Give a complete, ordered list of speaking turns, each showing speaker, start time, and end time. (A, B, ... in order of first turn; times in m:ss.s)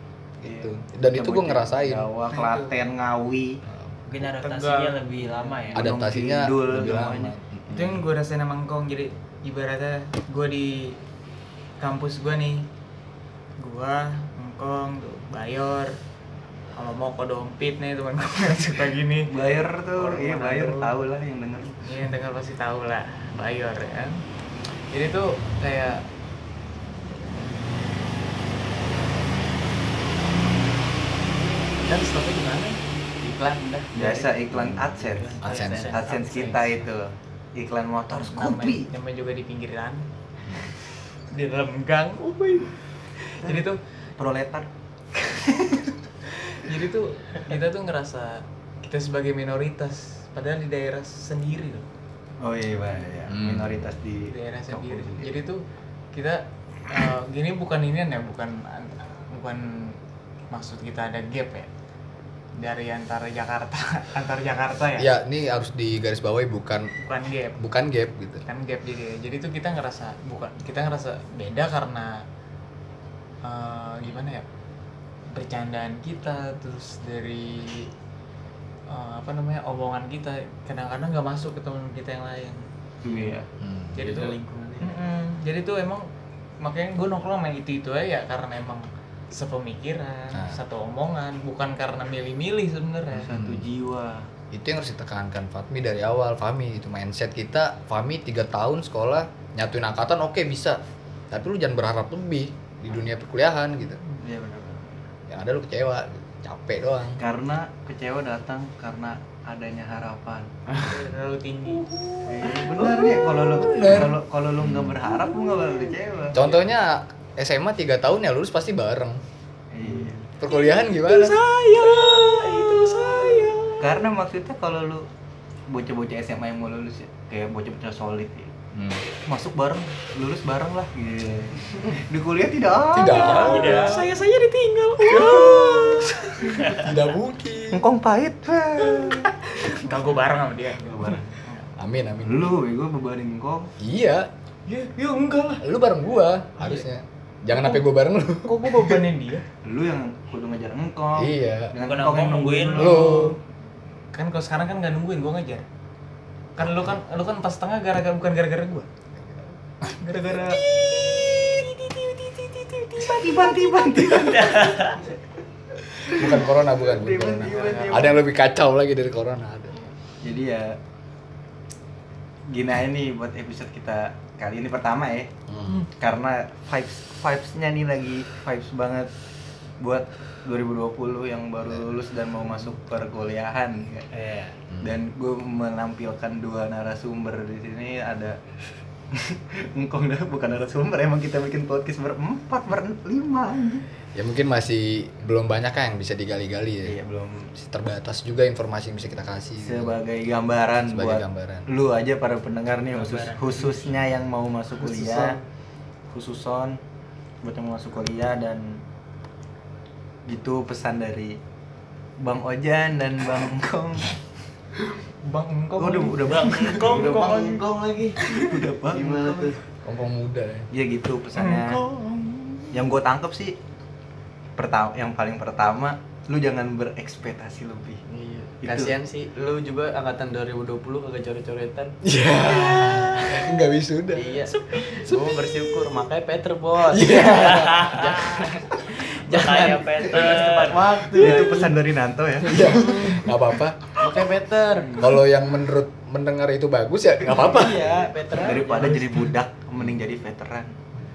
0:00.4-0:02.1 A
0:00.4-0:03.6 B
0:02.3-0:02.7 C
0:04.1-0:05.9 D
0:04.4-0:05.0 C
0:05.7-0:07.3 B
0:05.7-0:08.0 A
0:07.7-0:11.0 C
0:11.8-0:12.6 C
0:13.6-0:16.0 C
0:16.7-0:19.3 C
0:19.3-0:21.8 B
0:20.0-0:21.0 C
0:21.8-0:24.2 C
0:24.9-0:26.0 C
0:31.7-0:33.8 C
0:33.9-0:34.3 E
0:33.9-0:38.9 B
0:34.5-0:34.8 A
0:35.1-0:36.0 D
0:35.4-0:35.9 A
0:35.4-0:36.7 C
0:38.1-0:40.7 C
0:40.4-0:40.7 A
0:41.3-0:43.8 C
0:43.4-0:45.9 B
0:46.4-0:51.9 C
0:52.4-0:55.3 B
0:53.3-0:53.9 A
0:54.2-1:00.0 C
1:00.5-1:01.7 C
1:02.6-1:05.1 C
1:05.0-1:06.9 A
1:07.0-1:07.6 C
1:07.6-1:08.4 A
1:08.4-1:12.2 C
1:13.4-1:14.4 C
1:15.3-1:17.9 C
1:18.9-1:23.3 C
1:23.0-1:23.4 B
1:23.0-1:23.4 E
1:23.6-1:24.1 A
1:23.9-1:26.1 C
1:24.0-1:25.0 E
1:26.6-1:33.3 C
1:30.3-1:30.6 A
1:33.1-1:34.3 B
1:33.3-1:33.7 A
1:34.5-1:44.0 A
1:44.2-1:44.9 B
1:45.3-1:47.2 A
1:47.2-1:50.5 B
1:50.7-1:51.0 E
1:50.8-1:53.9 C
1:52.2-1:56.4 B
1:53.6-1:55.0 A
1:55.5-1:55.8 C
1:56.3-1:59.2 A
1:59.7-2:00.2 B
1:59.9-2:00.1 E
2:00.4-2:01.4 A
2:00.4-2:04.0 C
2:03.8-2:05.1 B
2:05.7-2:08.5 B
2:08.7-2:09.0 A
2:09.2-2:14.0 B
2:12.9-2:13.9 A
2:13.0-2:16.9 C
2:13.4-2:14.0 D
2:15.1-2:16.0 A
2:15.2-2:16.1 B
2:16.7-2:17.8 A
2:17.7-2:19.8 B
2:19.0-2:21.6 C
2:20.8-2:21.4 B
2:21.8-2:22.6 A
2:22.2-2:23.7 B
2:23.8-2:24.3 A
2:24.7-2:25.6 C
2:25.6-2:29.0 A
2:26.6-2:26.8 C
2:27.5-2:27.8 C
2:28.4-2:29.4 C
2:29.6-2:33.4 B
2:31.1-2:31.7 A
2:31.8-2:33.0 D
2:32.7-2:33.4 A
2:32.8-2:33.3 C
2:34.1-2:35.6 C
2:36.6-2:36.9 A
2:36.6-2:38.9 C
2:39.2-2:39.5 A
2:39.9-2:44.9 C
2:40.2-2:40.6 B
2:43.0-2:45.0 B
2:46.1-2:48.2 B
2:46.1-2:49.8 A
2:47.5-2:48.1 C
2:50.2-2:50.8 B
2:52.5-2:55.3 B
2:55.5-2:55.8 A
2:55.9-2:59.1 B
2:59.8-3:08.4 B
3:04.7-3:05.0 A
3:09.1-3:13.8 B
3:14.1-3:17.0 A
3:16.8-3:17.5 B
3:17.5-3:20.0 A
3:19.6-3:25.4 B
3:20.9-3:21.7 A
3:22.9-3:24.0 C
3:24.8-3:25.3 C
3:26.1-3:26.8 B
3:27.4-3:28.8 B
3:30.3-3:31.4 B
3:32.2-3:34.2 B
3:35.2-3:38.3 C
3:35.8-3:37.1 B
3:36.7-3:39.6 E
3:38.4-3:39.6 B
3:39.8-3:40.7 A
3:40.7-3:41.8 B
3:41.3-3:42.7 C
3:42.7-3:43.5 B
3:44.6-3:48.0 B
3:48.1-3:52.0 E
3:48.6-3:48.9 B
3:52.0-3:55.7 A
3:52.4-3:53.0 C
3:54.1-4:01.7 E
3:54.5-3:55.0 C
3:56.9-3:58.1 A
3:57.8-3:58.2 D
3:59.3-4:01.0 D
4:01.0-4:03.3 B
4:02.4-4:03.9 A
4:02.6-4:03.2 E
4:04.0-4:05.1 E
4:05.0-4:08.0 A
4:07.3-4:09.2 E
4:08.3-4:10.7 B